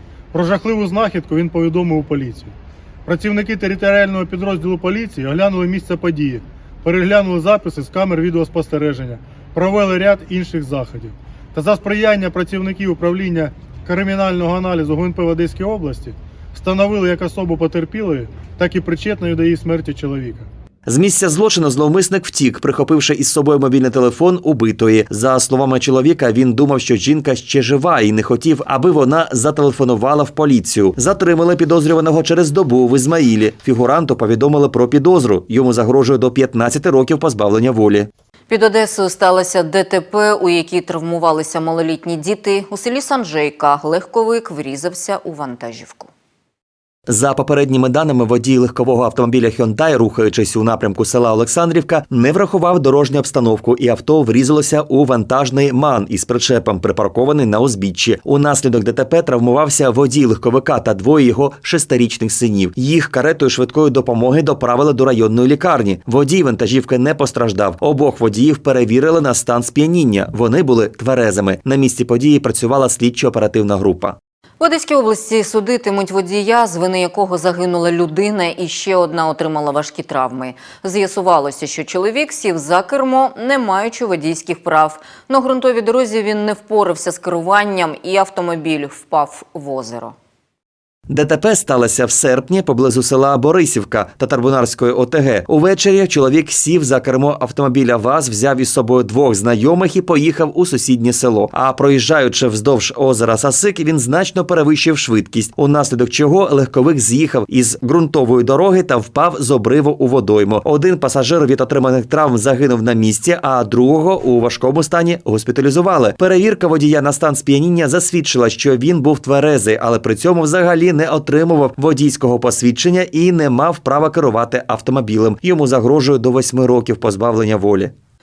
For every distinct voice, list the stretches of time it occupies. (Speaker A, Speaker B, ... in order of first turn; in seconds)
Speaker A: 0.3-2.5, 3.0-20.5
Speaker B: 20.9-38.1, 47.1-74.2, 91.1-127.9
Speaker C: 38.5-46.1, 74.6-90.1